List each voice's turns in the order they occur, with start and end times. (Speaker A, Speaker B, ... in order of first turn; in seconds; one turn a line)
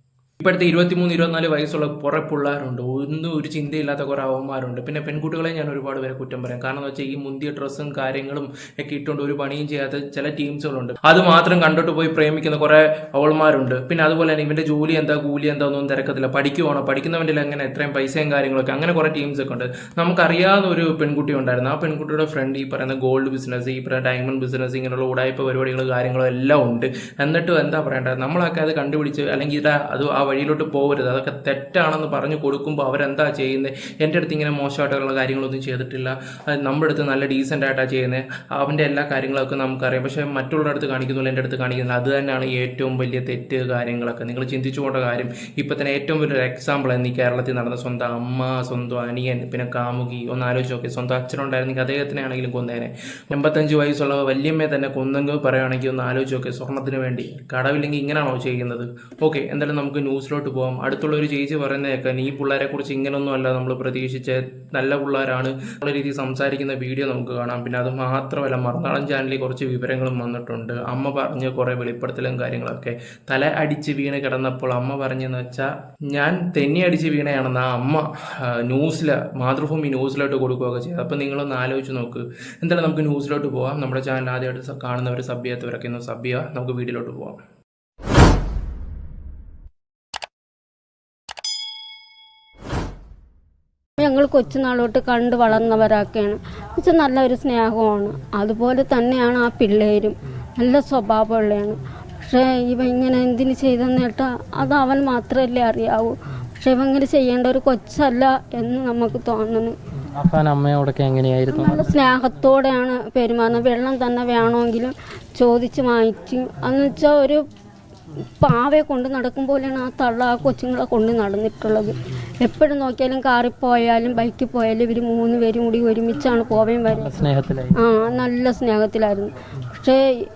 Speaker A: 0.4-78.1
Speaker A: 78.7-87.4
Speaker B: 94.0-109.8
Speaker C: 110.1-112.2
Speaker B: 111.5-117.4
Speaker B: 118.4-127.2
Speaker C: 126.9-127.8
Speaker B: 127.7-130.0